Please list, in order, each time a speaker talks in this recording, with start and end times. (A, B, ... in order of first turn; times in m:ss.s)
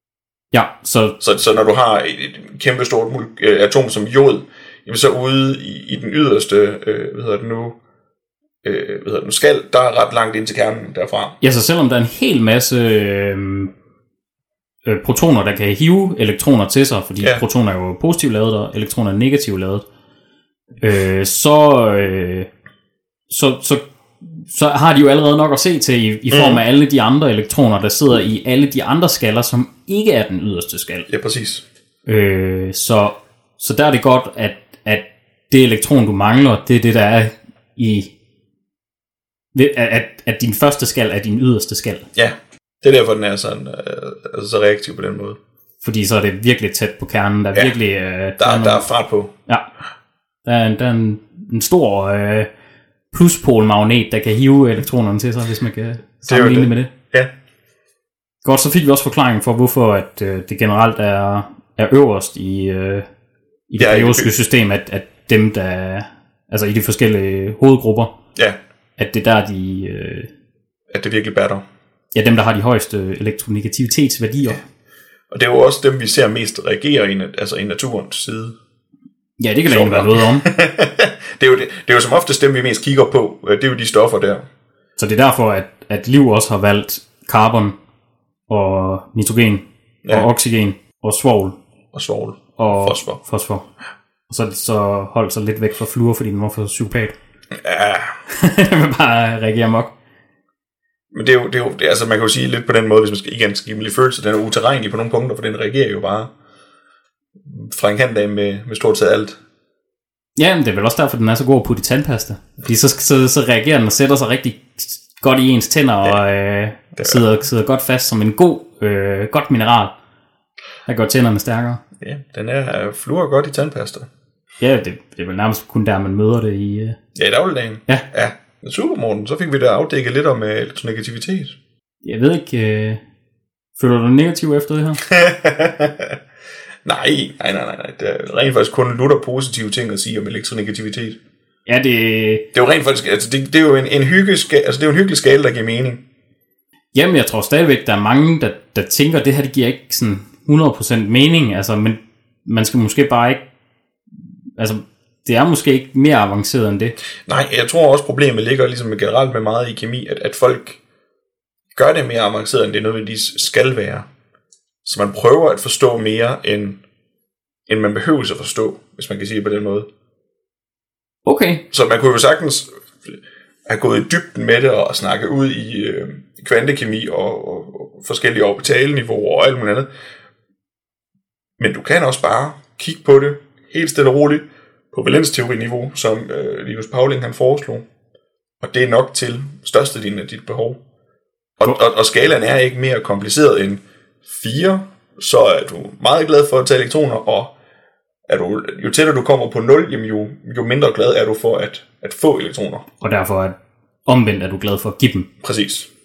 0:00.5-0:01.2 A
0:01.2-0:07.8 B
0:08.6-0:11.4 B
0:11.4-0:13.7 A
0:14.9-0:19.8 A
0:20.8-0:22.5 A
0:23.3-0:31.1 A
0:26.3-0:26.6 B
0:31.1-0:31.6 B
0:32.1-0:38.1 A
0:39.5-0:42.1 A
0:42.2-0:45.4 B
0:45.8-0:48.9 A
0:48.4-0:49.3 B
0:50.4-0:52.5 A
0:53.1-0:56.9 A
0:56.3-0:57.3 B
0:58.4-1:03.1 A
1:03.7-1:08.2 A
1:03.8-1:04.3 B
1:09.0-1:10.3 A
1:10.9-1:11.6 B
1:12.1-1:14.6 A
1:15.3-1:18.6 B
1:19.4-1:20.5 A
1:19.7-1:24.5 B
1:25.0-1:27.8 A
1:28.5-1:31.6 A
1:31.9-1:33.2 B
1:32.6-1:33.7 A
1:34.3-1:37.2 A
1:37.6-1:38.2 B
1:38.3-1:39.9 A
1:41.1-1:46.3 B
1:47.5-1:49.4 B
1:50.4-1:59.9 A
2:00.9-2:01.8 A
2:02.0-2:04.1 B
2:04.6-2:07.0 A
2:07.2-2:11.6 B
2:12.0-2:13.0 A
2:13.8-2:15.0 A
2:15.1-2:16.2 B
2:16.8-2:21.2 B
2:21.7-2:22.5 A
2:22.5-2:26.0 B
2:26.9-2:33.4 A
2:34.6-2:37.0 A
2:37.3-2:40.8 B
2:41.8-2:44.1 B
2:44.8-2:46.8 B
2:47.7-2:49.9 B
2:51.3-2:51.6 A
2:51.7-2:59.9 B
3:01.6-3:07.8 B
3:08.6-3:10.8 B
3:11.6-3:17.6 B
3:18.3-3:22.8 B
3:23.0-3:23.6 A
3:24.1-3:25.3 A
3:25.4-3:25.9 B